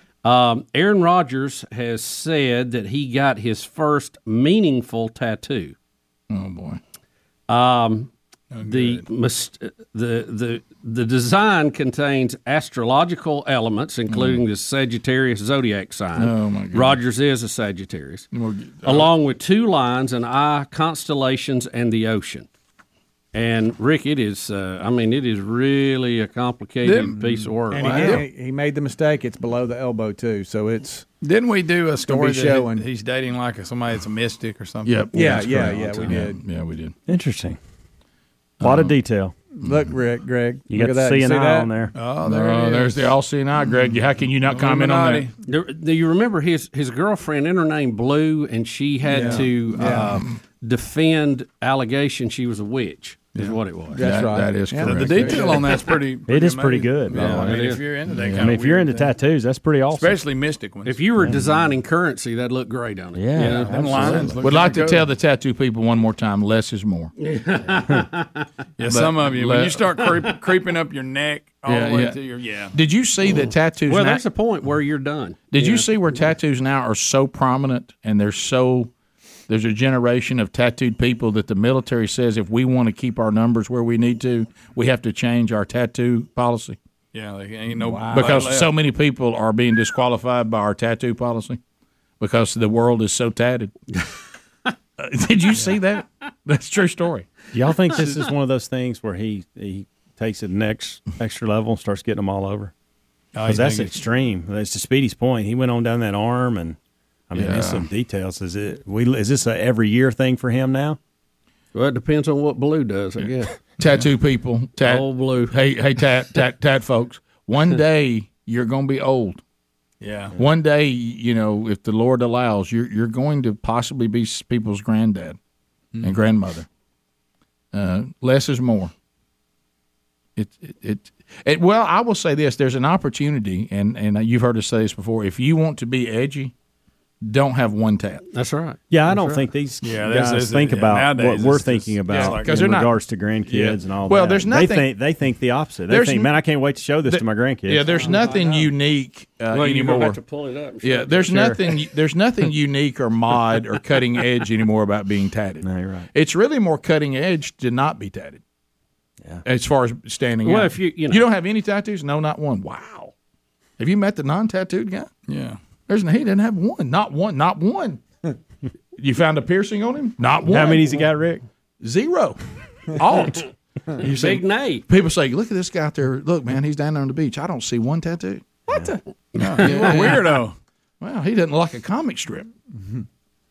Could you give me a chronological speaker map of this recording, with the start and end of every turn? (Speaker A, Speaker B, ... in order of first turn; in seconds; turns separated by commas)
Speaker A: 0.2-5.8, Speaker B: 6.3-6.8, Speaker A: 7.5-8.1, Speaker C: 8.5-9.0, Speaker A: 8.6-18.3, Speaker B: 14.1-14.4, Speaker B: 16.2-17.0, Speaker B: 18.3-19.1, Speaker A: 18.8-22.5, Speaker A: 23.3-28.2, Speaker C: 26.8-28.2, Speaker D: 27.7-31.1, Speaker C: 31.2-36.1, Speaker D: 32.1-32.9, Speaker B: 34.9-37.0, Speaker D: 35.1-36.4, Speaker E: 37.1-37.6, Speaker B: 38.6-38.9, Speaker E: 38.6-39.4, Speaker D: 39.6-41.7, Speaker E: 40.7-41.9, Speaker C: 42.0-43.0, Speaker B: 42.2-45.3, Speaker C: 44.5-45.3, Speaker A: 45.4-54.0, Speaker C: 49.1-49.5, Speaker D: 49.8-50.2, Speaker D: 53.9-55.7, Speaker B: 54.0-55.7, Speaker C: 54.8-59.1, Speaker E: 56.3-57.8, Speaker A: 57.4-57.9, Speaker B: 58.1-58.5, Speaker E: 58.4-60.2, Speaker C: 59.9-61.0, Speaker A: 60.9-64.2, Speaker E: 61.2-61.5, Speaker E: 63.1-64.3, Speaker C: 63.7-65.1, Speaker B: 64.4-67.1, Speaker A: 67.2-68.5, Speaker C: 68.8-72.8, Speaker B: 68.9-69.9, Speaker B: 71.7-72.2, Speaker B: 72.7-74.2, Speaker A: 73.4-75.9, Speaker B: 75.5-78.9, Speaker B: 79.5-86.8, Speaker C: 87.1-88.7, Speaker D: 87.8-88.5, Speaker B: 88.1-91.6, Speaker B: 92.2-93.7, Speaker B: 95.0-97.3, Speaker E: 97.5-102.7, Speaker C: 103.3-104.0, Speaker E: 103.5-106.8, Speaker E: 107.3-111.0, Speaker B: 107.4-107.8, Speaker A: 111.7-113.6, Speaker B: 113.8-119.4, Speaker A: 114.8-115.5, Speaker C: 120.0-120.4, Speaker B: 120.4-125.4, Speaker C: 126.0-126.2, Speaker B: 126.0-126.7, Speaker B: 127.7-128.9, Speaker B: 130.4-136.5, Speaker B: 137.2-138.2, Speaker A: 138.3-139.4, Speaker E: 138.9-147.9, Speaker C: 139.8-142.6, Speaker B: 142.1-143.0, Speaker B: 143.5-144.9, Speaker B: 145.9-146.3, Speaker B: 147.1-150.2, Speaker D: 147.9-148.7, Speaker A: 149.5-151.5, Speaker B: 150.8-158.4, Speaker E: 151.3-151.6, Speaker E: 155.6-156.1, Speaker B: 159.4-163.1, Speaker A: 160.4-161.3, Speaker B: 163.8-165.1, Speaker C: 165.3-165.6, Speaker B: 165.9-168.0, Speaker B: 169.0-171.1, Speaker E: 170.5-171.4, Speaker B: 171.8-179.0, Speaker A: 174.0-174.9, Speaker A: 179.3-180.1, Speaker C: 179.4-180.6, Speaker B: 179.6-180.3, Speaker B: 181.0-182.5